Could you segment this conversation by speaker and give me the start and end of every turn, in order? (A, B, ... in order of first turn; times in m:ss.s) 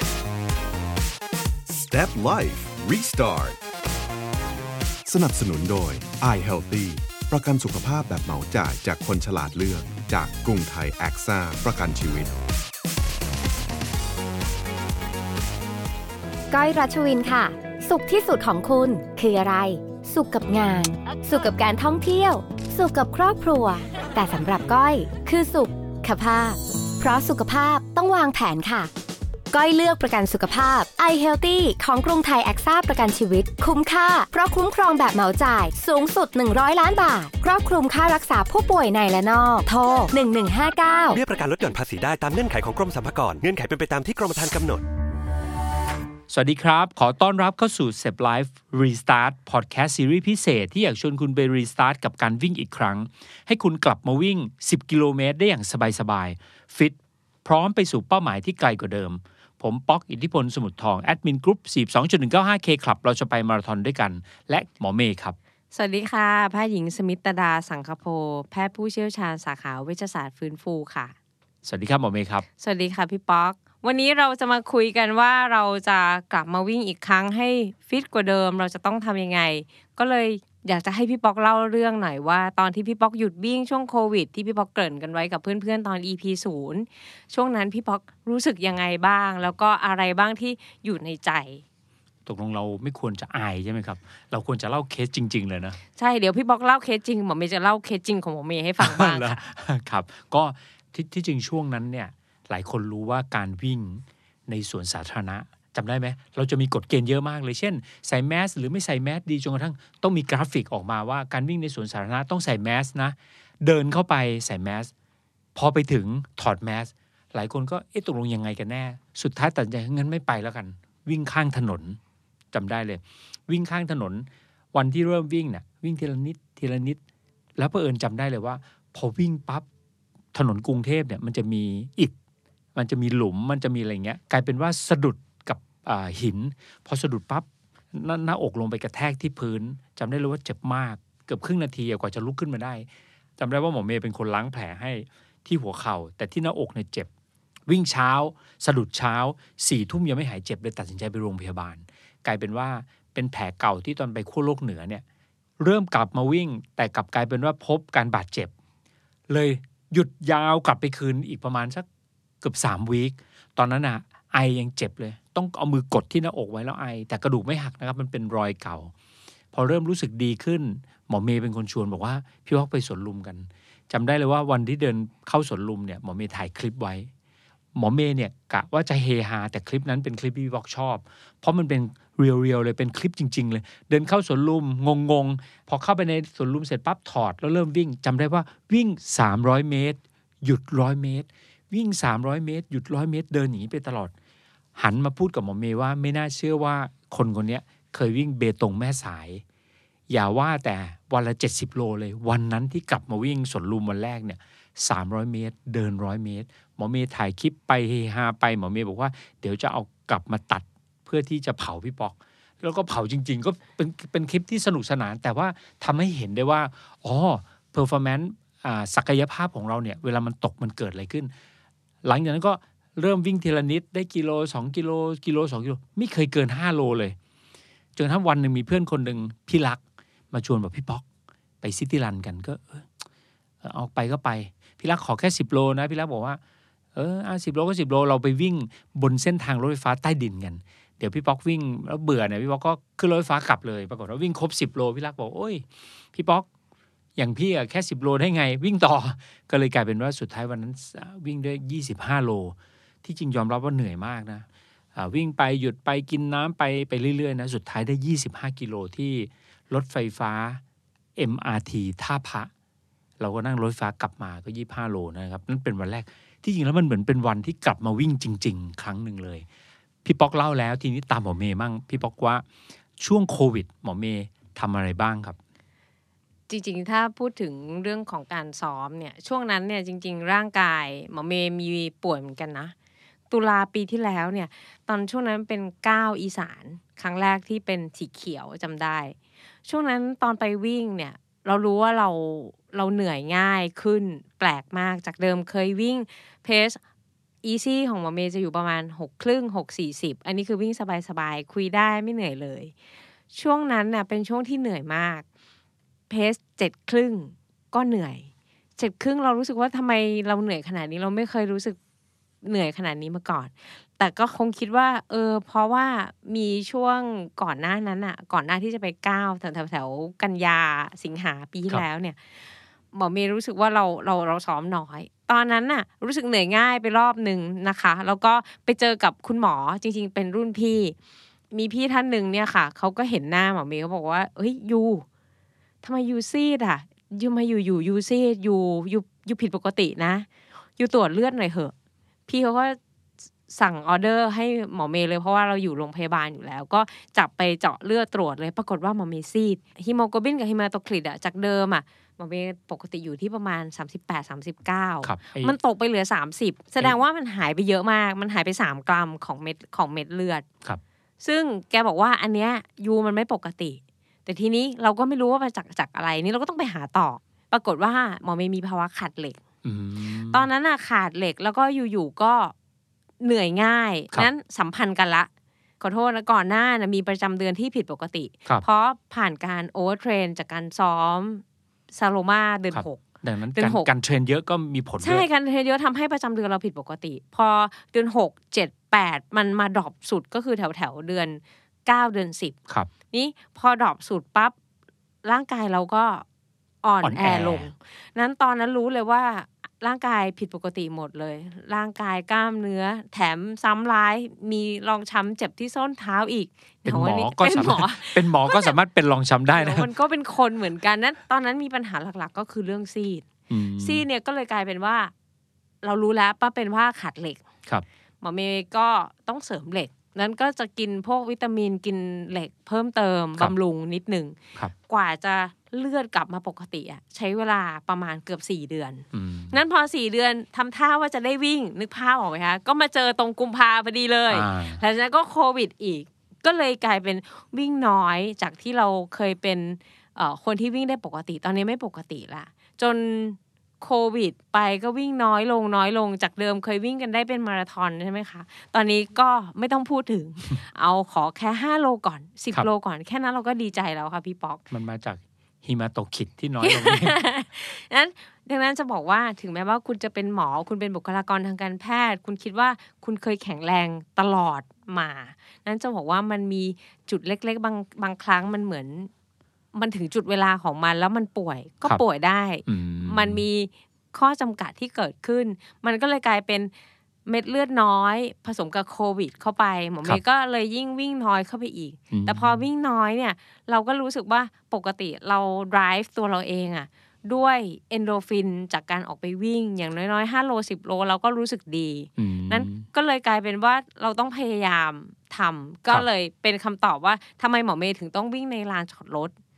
0:01.7-0:03.6 A
0:05.0-0:12.3 A
0:16.5-0:28.9 B
0:29.5-0:41.2 B
0:41.1-0:44.8 C
0:46.3-1:05.4 D
1:05.7-1:11.1 E
1:11.6-1:12.4 D
1:12.6-1:31.6 E
1:32.2-1:35.8 D
1:36.0-1:39.4 E
1:38.8-1:54.9 D
1:55.5-2:02.0 D
2:02.5-2:07.0 D
2:07.6-2:09.6 D
2:10.3-2:12.1 D
2:12.7-2:22.9 D
2:23.4-2:27.1 D
2:27.7-2:35.0 D
2:35.6-2:38.5 D
2:39.3-2:41.8 D
2:42.4-2:48.9 D
2:49.5-2:57.1 D
2:57.7-3:14.1 D
3:14.8-3:19.4 D
3:20.1-3:41.3 D
3:42.0-3:47.2 D
3:48.0-3:49.8 D
3:50.3-3:51.0 D
3:51.6-3:52.9 D
3:53.6-3:56.4 D
3:56.9-4:06.4 D
4:07.2-4:20.6 D
4:21.2-4:22.5 D
4:23.2-4:29.4 D
4:30.0-4:32.4 D
4:33.0-4:35.4 D
4:36.5-4:42.7 E
4:43.3-4:49.1 E
4:49.6-4:56.8 E
4:57.4-5:02.7 E
5:03.3-5:05.2 E
5:06.1-5:11.8 E
5:12.4-5:22.2 E
5:22.9-5:30.9 E
5:31.5-5:35.0 E
5:35.8-5:40.3 E
5:40.8-5:41.7 E
5:42.3-5:42.8 E
5:43.5-6:00.4 E
5:55.0-5:55.5 D
6:01.2-6:09.4 E
6:09.6-6:10.5 D
6:10.1-6:12.5 E
6:13.2-6:15.3 E
6:15.8-6:23.9 E
6:22.7-6:25.2 D
6:25.0-6:32.6 E
6:33.1-6:34.5 E
6:35.2-6:36.2 E
6:36.8-6:48.7 E
6:37.0-6:37.7 D
6:46.8-6:49.9 D
6:49.5-6:55.1 E
6:53.5-6:54.0 D
6:55.8-6:57.4 E
6:58.2-7:34.6 E
7:09.1-7:09.6 D
7:14.3-7:14.8 D
7:34.7-7:37.2 D
7:36.6-7:49.1 E
7:49.7-7:56.7 E
7:52.6-7:53.4 D
7:57.2-8:19.3 E
8:02.1-8:02.6 D
8:12.2-8:12.8 D